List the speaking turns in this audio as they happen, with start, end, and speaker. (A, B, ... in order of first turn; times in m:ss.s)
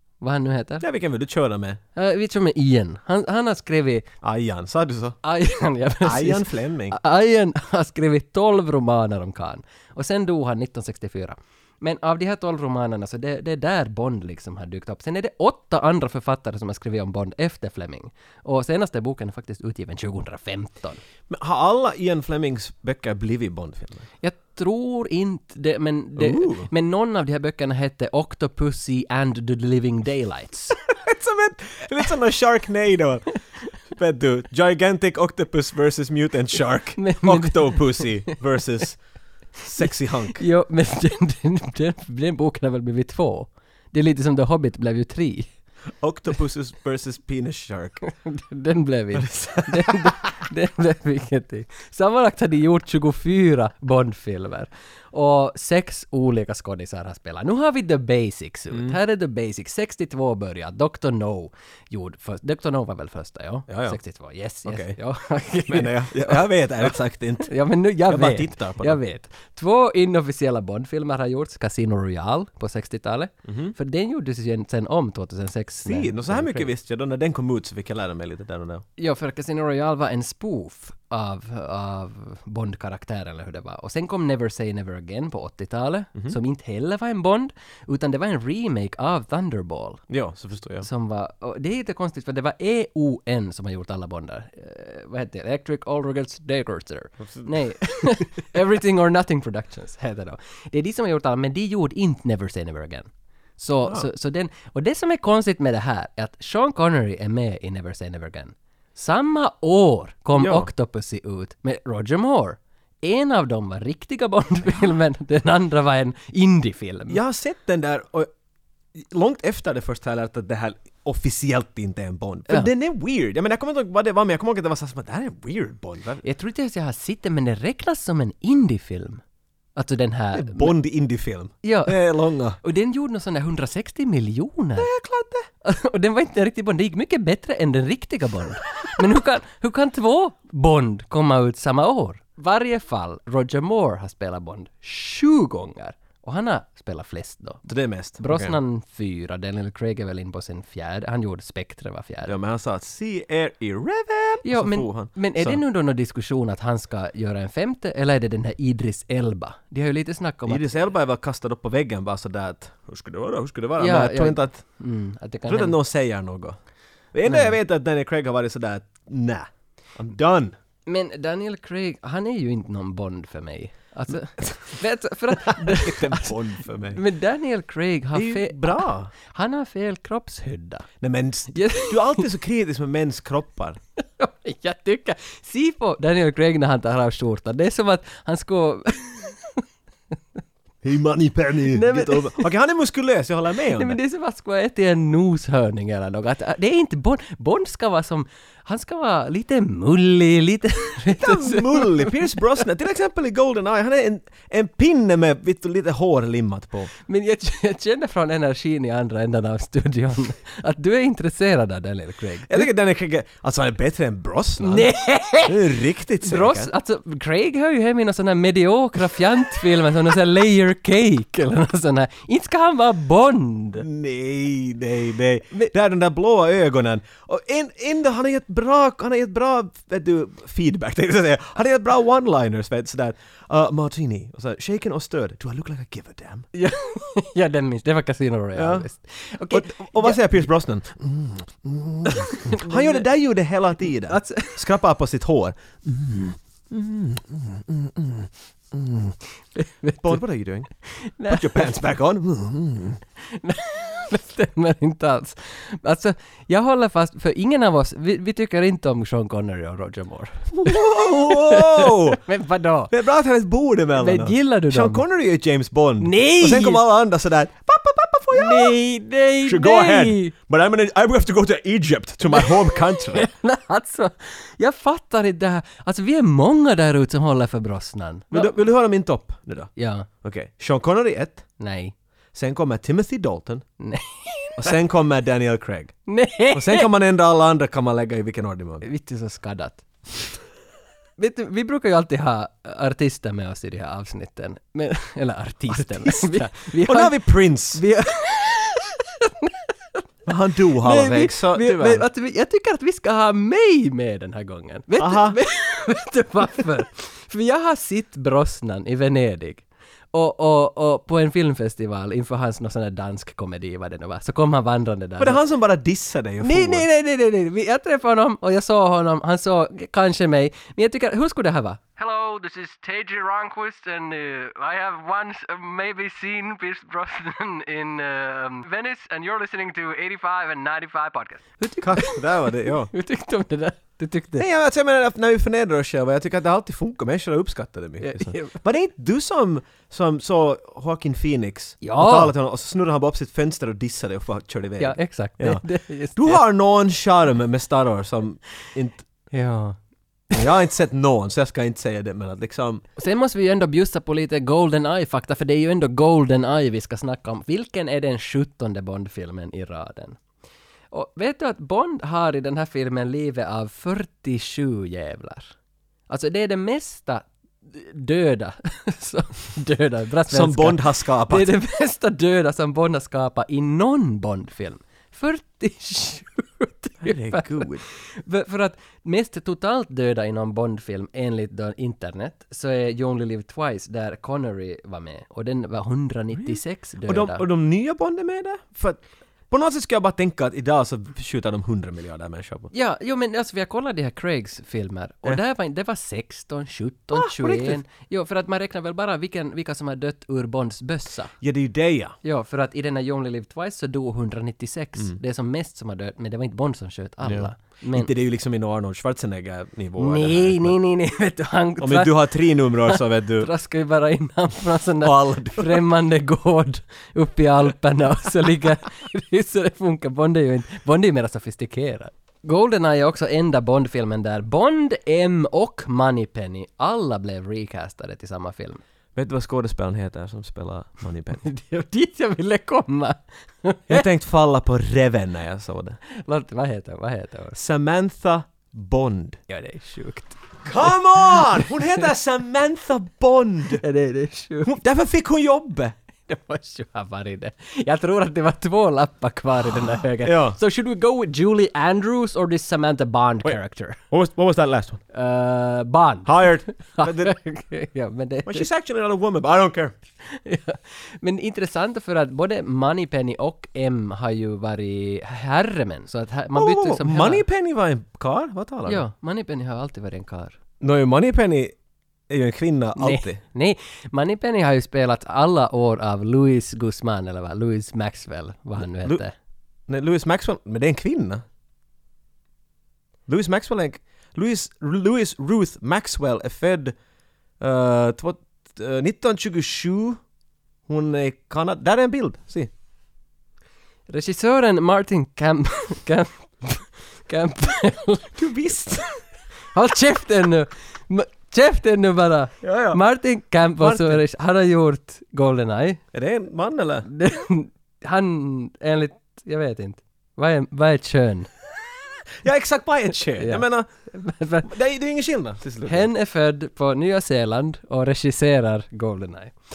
0:00.2-0:00.8 A
0:00.8-0:01.8 B
0:02.0-0:04.1 A
0:04.2-0:05.2 B
0:05.2-0:21.0 A
0:06.0-0:07.0 B
0:21.3-0:24.0 B
0:24.2-0:30.8 A
0:26.2-0:26.7 B
0:30.9-0:33.3 B
0:33.9-0:39.0 B
0:37.0-0:38.4 A
0:39.6-0:40.4 B
0:39.8-0:45.5 A
0:46.0-0:48.0 B
0:48.2-1:06.4 A
0:49.2-0:50.1 B
0:58.7-0:59.0 B
1:03.7-1:04.0 B
1:04.6-1:05.0 B
1:05.7-1:07.5 B
1:07.5-1:16.7 A
1:08.1-1:09.0 B
1:13.5-1:13.7 B
1:15.8-1:18.8 B
1:19.0-1:30.0 A
1:30.1-1:30.9 B
1:30.8-1:57.2 A
1:37.2-1:37.5 B
1:50.3-1:50.7 B
1:57.1-1:58.3 B
1:58.9-2:06.2 B
2:06.2-2:09.2 A
2:09.8-2:10.7 A
2:10.3-2:12.6 B
2:11.6-2:12.1 A
2:12.6-2:14.9 A
2:14.8-2:15.5 B
2:15.6-2:27.6 A
2:27.6-2:28.6 B
2:28.2-2:32.3 A
2:32.2-2:35.6 B
2:34.4-2:40.8 A
2:40.5-2:44.6 B
2:43.8-2:45.8 A
2:45.5-2:46.6 B
2:47.1-2:50.6 B
2:47.3-2:47.6 A
2:50.8-2:56.3 A
2:55.4-2:57.0 B
2:56.9-3:00.9 A
2:58.1-2:59.1 B
3:01.0-3:03.8 B
3:01.5-3:02.2 A
3:04.2-3:09.6 A
3:10.8-3:14.0 B
3:11.7-3:12.5 A
3:13.8-3:22.4 A
3:21.2-3:26.9 B
3:27.1-3:32.7 A
3:32.5-3:34.9 B
3:34.6-3:35.6 A
3:35.4-3:36.7 B
3:36.2-3:43.8 A
3:43.8-3:56.5 B
3:56.5-4:00.4 A
3:58.6-3:58.8 B
3:59.5-4:09.2 B
4:02.1-4:03.0 A
4:04.1-4:04.6 A
4:09.5-4:10.2 A
4:10.0-4:10.7 B
4:11.0-4:11.7 A
4:11.3-4:13.0 B
4:13.3-4:22.9 A
4:20.5-4:22.2 B
4:22.9-4:28.7 B
4:24.0-4:25.0 A
4:26.0-4:26.8 A
4:28.3-4:30.3 A
4:29.4-4:33.3 B
4:32.3-4:38.5 A
4:38.3-4:41.4 B
4:39.8-4:40.1 A
4:41.6-4:41.9 A
4:42.3-4:43.6 B
4:43.8-4:44.7 A
4:44.6-4:46.0 B
4:46.1-4:46.9 A
4:46.5-4:48.9 B
4:48.8-4:49.8 A
4:51.2-5:00.0 A
4:55.7-4:57.8 B
5:00.2-5:02.0 B
5:00.8-5:15.4 A
5:05.0-5:05.4 B
5:15.2-5:16.8 B
5:16.4-5:34.4 A
5:31.8-5:32.9 B
5:34.4-5:45.6 B
5:38.0-5:38.6 A
5:41.8-5:42.3 A
5:44.8-5:46.4 A
5:46.2-5:49.0 B
5:49.3-5:49.8 A
5:50.3-5:52.8 B
5:53.0-6:00.2 A
6:00.9-6:05.5 A
6:06.1-6:17.7 A
6:10.3-6:11.5 B
6:17.0-6:17.8 B
6:18.2-6:27.4 A
6:26.4-6:32.7 B
6:32.7-6:41.3 A
6:37.1-6:37.8 B
6:41.4-6:42.2 B
6:42.2-6:48.1 A
6:47.2-6:50.8 B
6:50.0-7:08.8 A
6:51.8-6:53.5 B
6:55.0-6:55.8 B
7:09.1-7:11.4 B
7:11.4-7:14.0 A
7:13.9-7:16.0 B
7:16.1-7:17.6 A
7:17.5-7:19.4 B
7:19.5-7:20.4 A
7:20.6-7:23.8 B
7:23.8-7:24.7 A
7:24.6-7:25.9 B
7:26.3-7:34.0 A
7:29.7-7:30.6 B
7:34.1-7:35.0 B
7:35.1-7:38.7 A
7:36.2-7:37.3 B
7:38.5-7:39.9 B
7:40.3-7:47.4 A
7:46.5-7:49.0 B
7:48.8-7:50.6 A
7:50.8-7:51.7 B
7:52.3-7:53.4 B
7:53.0-7:59.3 A
7:58.8-7:59.2 B
7:59.9-8:01.4 B
8:03.3-8:07.0 B
8:07.6-8:10.2 B
8:10.9-8:12.7 B
8:14.1-8:18.4 A
8:18.4-8:19.1 B
8:19.7-8:26.0 A
8:22.6-8:23.0 B
8:23.8-8:24.2 B
8:26.1-8:27.1 B
8:27.1-8:31.5 A
8:32.4-8:33.9 B
8:33.4-8:34.7 A
8:34.6-8:36.1 B
8:35.8-8:39.5 A